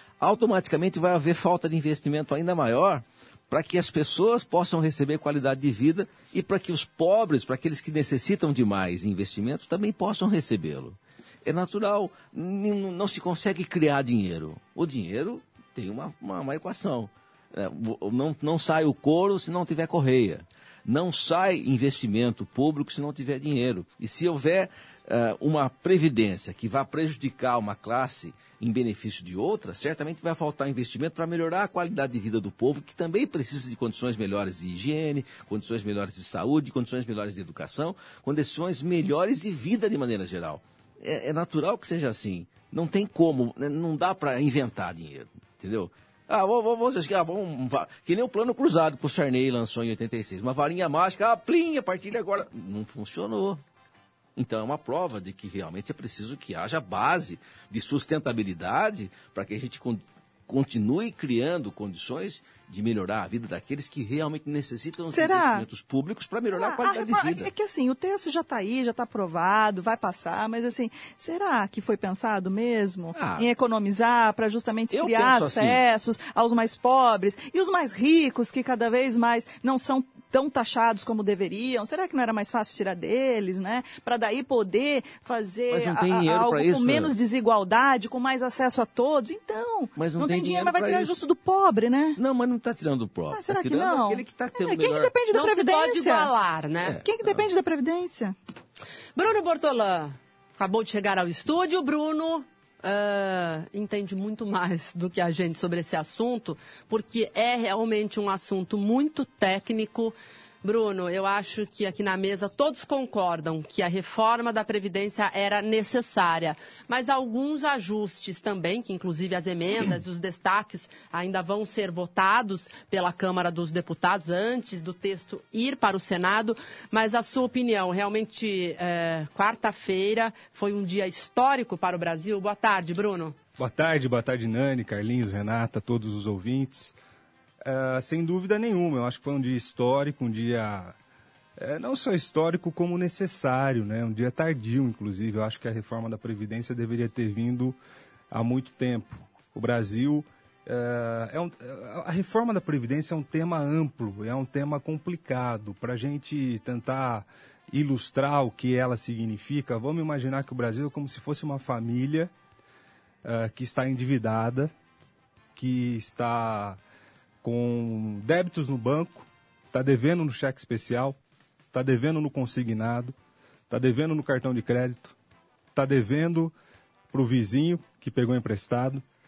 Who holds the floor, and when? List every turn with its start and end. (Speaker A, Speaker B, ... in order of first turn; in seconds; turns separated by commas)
Speaker A: 0.2-53.6, Speaker A: 54.4-67.5, Speaker B: 65.1-65.6, Speaker B: 66.5-92.2, Speaker A: 73.1-73.5, Speaker A: 74.9-75.8, Speaker A: 85.7-87.2, Speaker A: 90.0-91.1, Speaker A: 92.2-95.1, Speaker B: 93.3-96.3, Speaker C: 95.3-97.0, Speaker A: 96.8-97.5, Speaker B: 97.0-98.3, Speaker C: 99.2-133.3, Speaker D: 133.6-136.9, Speaker D: 137.6-140.9, Speaker D: 141.6-147.8, Speaker D: 148.3-162.3, Speaker D: 163.2-164.7, Speaker D: 165.6-166.8, Speaker D: 167.4-171.2, Speaker D: 171.7-173.1, Speaker D: 173.7-175.1, Speaker D: 175.7-176.5, Speaker D: 177.1-179.0